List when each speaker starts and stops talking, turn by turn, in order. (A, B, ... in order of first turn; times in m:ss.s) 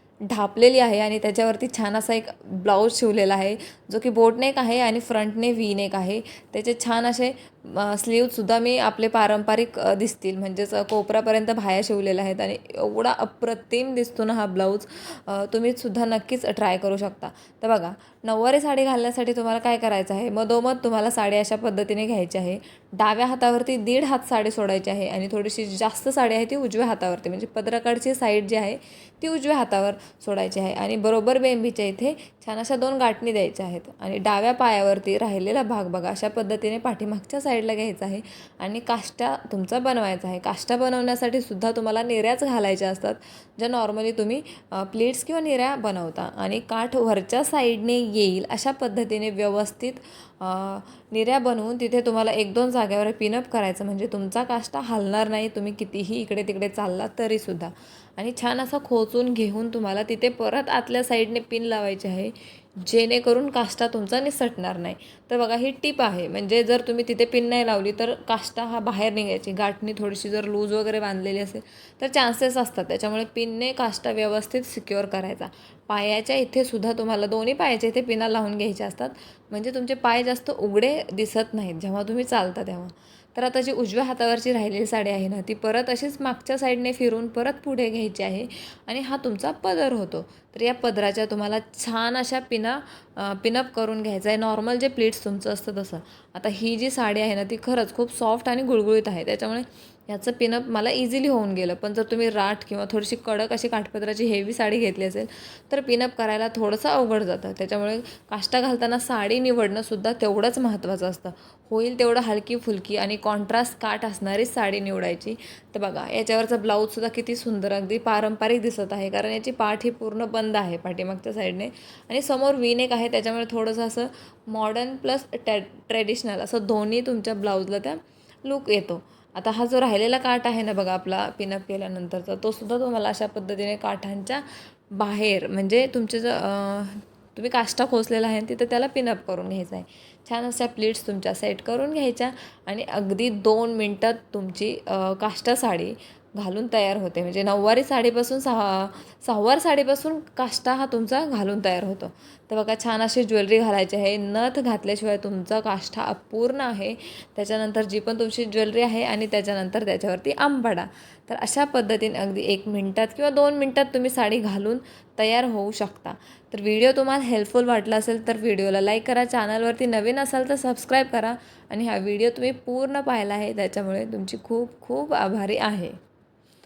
0:00.3-2:56.0 A